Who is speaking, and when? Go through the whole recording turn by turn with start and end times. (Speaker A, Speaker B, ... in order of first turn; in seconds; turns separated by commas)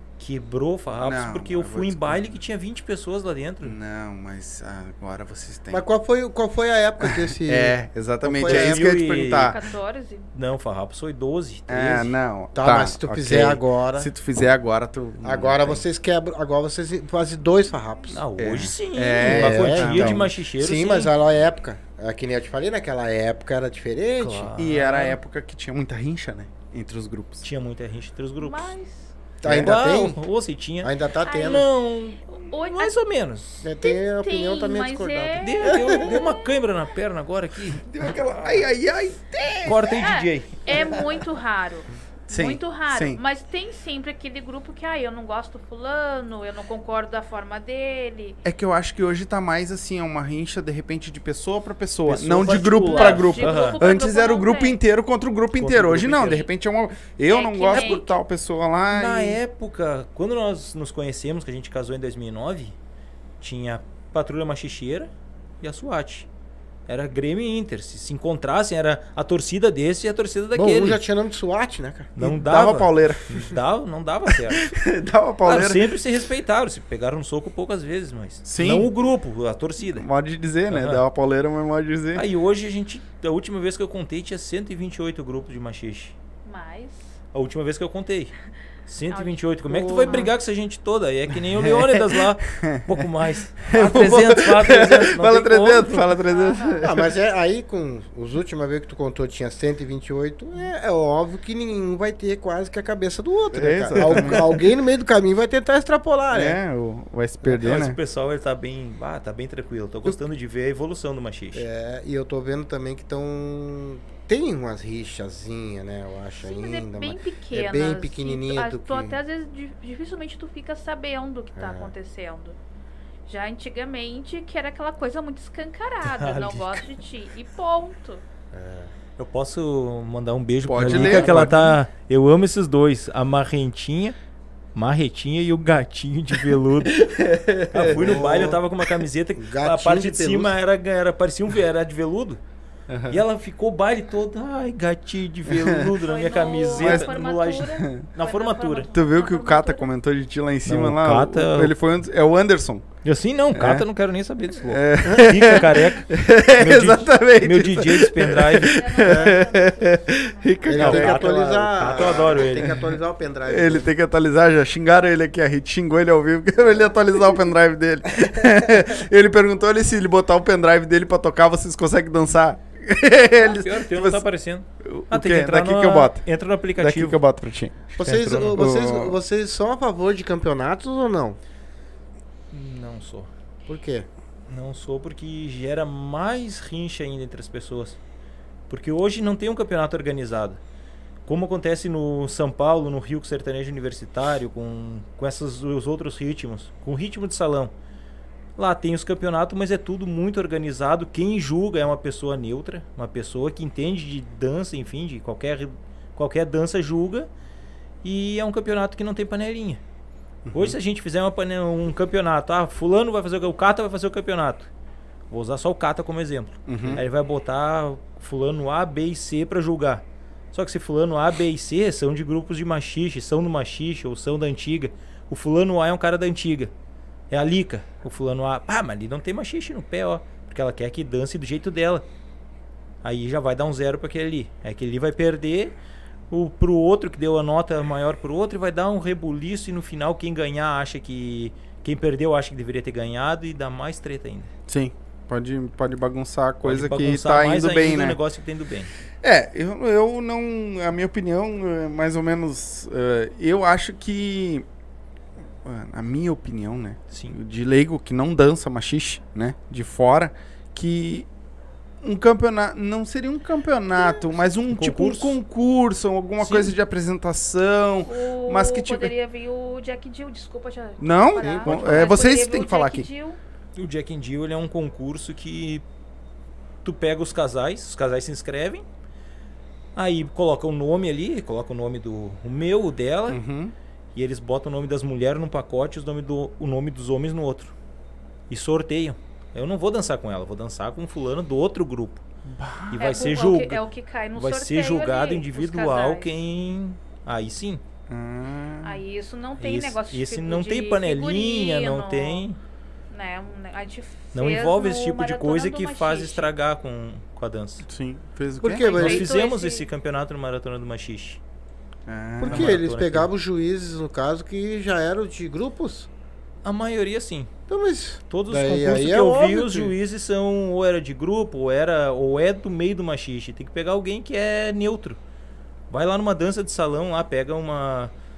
Speaker A: 0.2-3.7, Speaker B: 1.0-2.2, Speaker B: 3.6-5.8, Speaker C: 5.7-8.9, Speaker B: 7.0-9.6, Speaker A: 8.4-9.7, Speaker D: 9.5-10.3, Speaker A: 10.3-12.1, Speaker B: 11.7-15.8, Speaker C: 12.5-14.1, Speaker C: 15.2-18.2, Speaker A: 18.1-21.1, Speaker B: 18.4-20.2, Speaker C: 19.2-24.5, Speaker A: 24.2-25.2, Speaker B: 24.6-27.4, Speaker A: 27.4-28.7, Speaker D: 28.4-29.1, Speaker C: 29.4-30.2, Speaker B: 29.4-29.7, Speaker A: 29.5-33.6, Speaker C: 30.8-31.6, Speaker D: 31.2-31.6, Speaker D: 32.3-33.0, Speaker C: 33.6-36.2, Speaker D: 33.8-36.5, Speaker A: 35.4-37.8, Speaker B: 37.8-40.1, Speaker A: 39.6-41.0, Speaker D: 39.9-48.4, Speaker B: 42.3-43.2, Speaker B: 48.4-59.4, Speaker A: 52.1-53.8, Speaker D: 52.5-54.8, Speaker A: 55.6-56.5, Speaker D: 57.3-58.1, Speaker A: 58.9-62.7, Speaker A: 63.4-65.1, Speaker A: 65.6-66.3, Speaker A: 66.9-71.0, Speaker C: 70.5-72.3, Speaker A: 72.2-74.7, Speaker B: 72.2-73.5, Speaker B: 74.5-75.9, Speaker A: 75.4-80.0, Speaker B: 78.5-78.9, Speaker B: 79.9-82.2, Speaker A: 80.7-81.0, Speaker A: 82.1-86.1, Speaker D: 86.4-87.2, Speaker A: 87.3-96.2, Speaker D: 89.1-90.3, Speaker B: 91.6-92.9, Speaker B: 93.6-97.1, Speaker D: 96.3-96.9, Speaker C: 96.8-106.6, Speaker B: 103.5-104.6, Speaker A: 104.0-104.4, Speaker B: 106.3-108.0, Speaker A: 107.4-111.6, Speaker C: 111.5-119.2, Speaker D: 116.4-122.6, Speaker C: 121.5-121.9, Speaker D: 123.2-128.2, Speaker A: 126.0-126.9, Speaker C: 128.5-128.9, Speaker A: 129.2-134.2, Speaker B: 130.6-131.6, Speaker C: 130.8-131.7, Speaker A: 134.7-137.0, Speaker B: 137.0-138.6, Speaker A: 137.7-142.4, Speaker C: 137.9-138.6, Speaker C: 139.4-140.5, Speaker B: 142.9-143.2, Speaker A: 143.1-148.9, Speaker B: 145.5-145.9, Speaker D: 146.0-149.9, Speaker B: 146.7-147.1, Speaker B: 147.8-148.1, Speaker B: 148.9-152.8, Speaker A: 150.7-151.7, Speaker A: 153.0-158.9, Speaker B: 153.5-153.8, Speaker B: 154.7-161.3, Speaker C: 155.1-155.4, Speaker D: 158.6-161.0, Speaker C: 159.0-159.4, Speaker C: 160.6-163.9, Speaker A: 160.7-162.7, Speaker B: 162.6-162.9, Speaker B: 163.5-174.2, Speaker C: 168.2-168.8, Speaker A: 173.4-177.2, Speaker B: 174.8-176.2, Speaker B: 176.8-179.2, Speaker C: 178.0-181.4, Speaker A: 182.5-183.3, Speaker C: 183.7-184.1, Speaker A: 184.5-188.0, Speaker A: 188.7-190.6, Speaker A: 191.2-197.7, Speaker A: 198.6-207.3, Speaker A: 208.0-209.8, Speaker B: 210.4-210.8, Speaker A: 210.5-214.7, Speaker A: 215.3-226.7, Speaker B: 216.7-217.0, Speaker A: 227.3-232.0, Speaker A: 233.0-235.7, Speaker A: 236.3-244.5, Speaker B: 244.7-248.2, Speaker A: 246.6-248.9, Speaker B: 249.2-254.6, Speaker B: 255.6-261.3, Speaker B: 262.0-269.1, Speaker A: 264.6-265.4, Speaker A: 266.4-266.7, Speaker D: 268.1-273.4, Speaker B: 271.0-273.1, Speaker C: 271.4-272.1, Speaker A: 273.7-275.8, Speaker A: 276.8-278.8, Speaker A: 279.9-283.4, Speaker B: 283.3-283.7, Speaker A: 284.1-287.7, Speaker A: 288.5-292.2, Speaker B: 292.4-293.4, Speaker A: 292.9-297.8, Speaker D: 293.0-296.3, Speaker B: 298.1-299.0, Speaker D: 298.8-302.4, Speaker A: 299.6-302.6, Speaker D: 303.1-306.5, Speaker A: 304.3-307.8, Speaker B: 307.8-308.9, Speaker C: 308.6-309.3, Speaker D: 308.8-309.9, Speaker A: 308.9-311.4, Speaker B: 312.1-312.8, Speaker C: 312.4-316.1, Speaker A: 312.4-313.3, Speaker A: 316.6-317.5, Speaker C: 317.7-319.9, Speaker A: 318.3-325.2, Speaker A: 325.9-328.1